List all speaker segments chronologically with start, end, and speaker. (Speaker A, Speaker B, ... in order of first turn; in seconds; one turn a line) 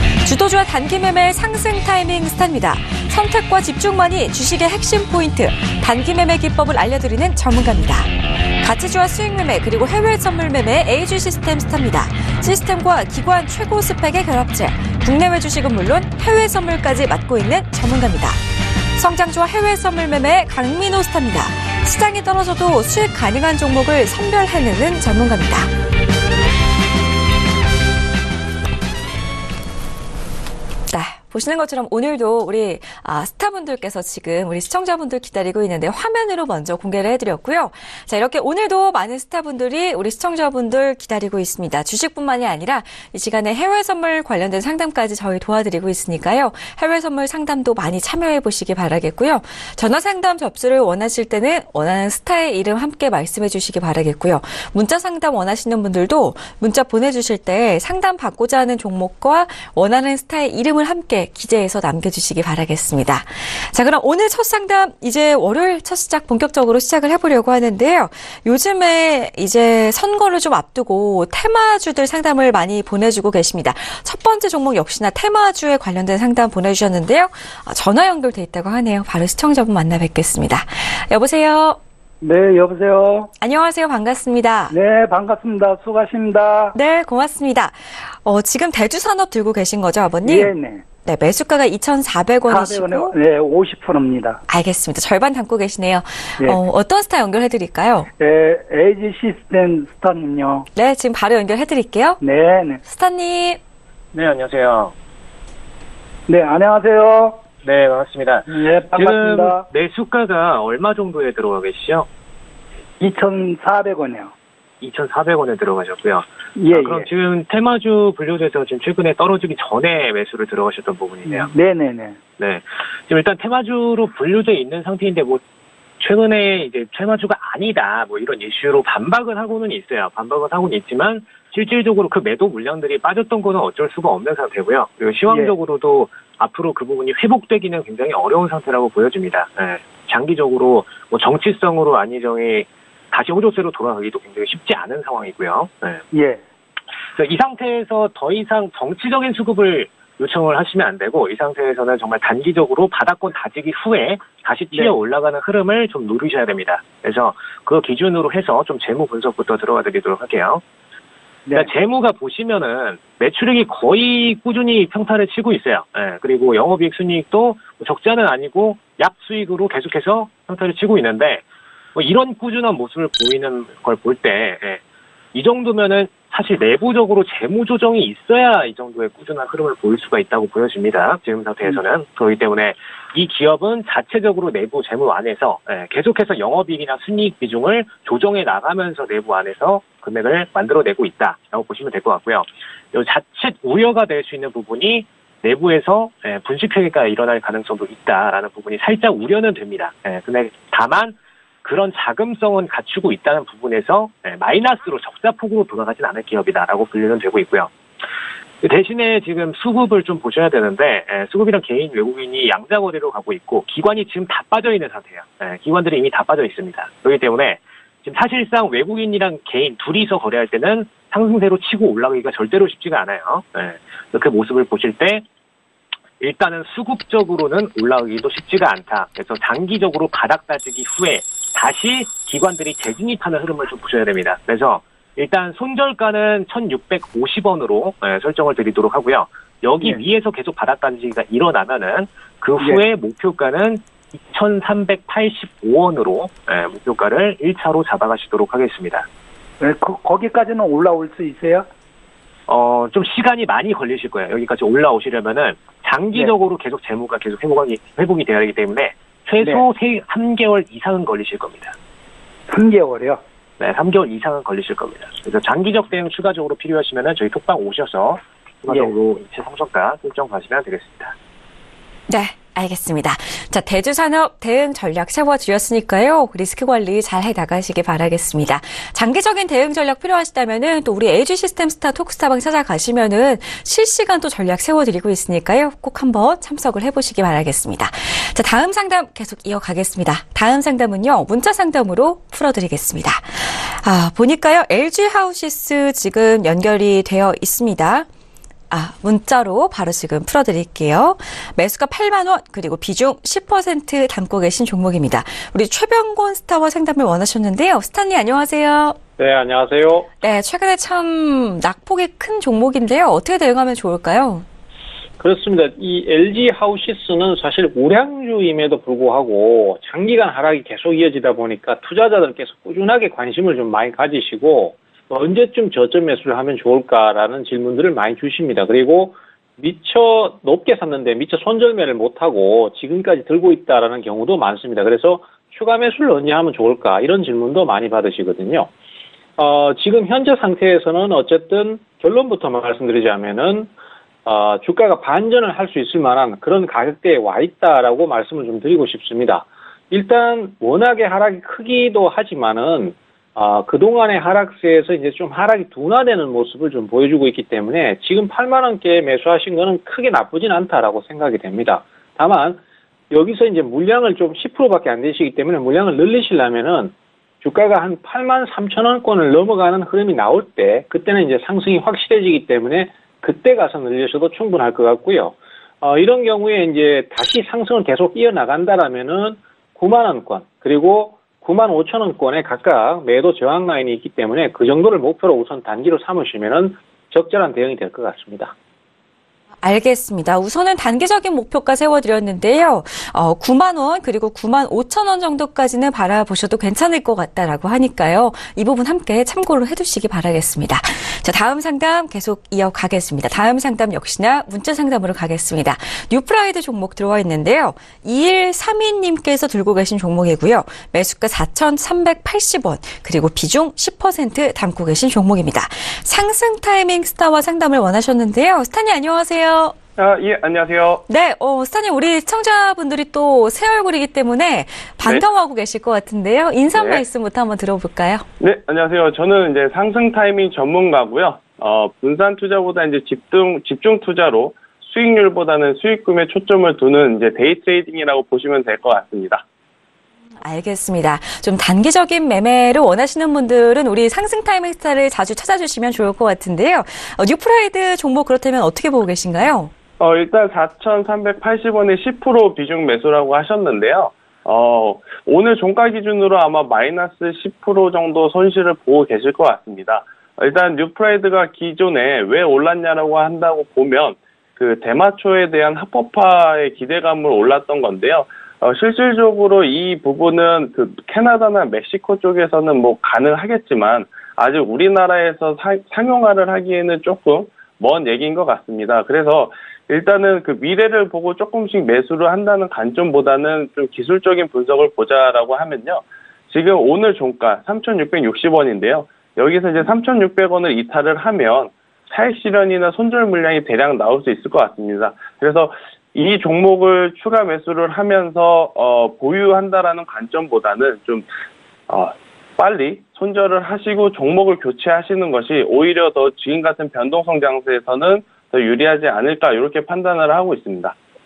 Speaker A: 0.2-18.4
Speaker A: 18.9-25.7
Speaker A: 30.9-81.8
Speaker B: 82.2-83.3
Speaker A: 83.4-84.7
Speaker B: 84.7-86.7
Speaker A: 86.7-90.5
Speaker B: 90.2-90.8
Speaker A: 91.0-93.2
Speaker B: 92.5-94.4
Speaker A: 94.5-98.1
Speaker B: 98.2-100.7
Speaker A: 100.7-102.2
Speaker B: 102.2-102.8
Speaker A: 102.8-103.6
Speaker C: 104.1-104.9
Speaker B: 106.3-107.4
Speaker C: 107.6-112.1
Speaker B: 108.5-109.7
Speaker B: 113.0-114.3
Speaker C: 114.8-121.5
Speaker B: 116.6-117.1
Speaker B: 121.3-122.2
Speaker C: 122.4-125.4
Speaker C: 126.0-146.0
Speaker B: 135.3-135.6
Speaker B: 146.1-146.4
Speaker C: 147.2-160.6
Speaker C: 161.5-171.4
Speaker C: 171.9-174.8
Speaker C: 175.3-207.7
Speaker C: 208.6-225.2
Speaker C: 226.2-249.1
Speaker B: 249.6-251.7
Speaker C: 252.5-261.8
Speaker B: 259.4-259.6
Speaker B: 262.5-263.2
Speaker C: 263.6-271.1
Speaker A: 272.1-298.1
Speaker A: 298.7-309.0
Speaker D: 309.2-310.1
Speaker A: 310.2-314.4
Speaker D: 315.2-338.7
Speaker D: 339.4-343.7
Speaker D: 344.3-388.5
Speaker A: 389.6-419.8
Speaker E: 420.0-421.0
Speaker A: 421.1-428.3
Speaker E: 426.7-427.0
Speaker E: 428.4-439.4
Speaker A: 440.4-449.7
Speaker E: 450.0-501.3
Speaker E: 501.9-510.9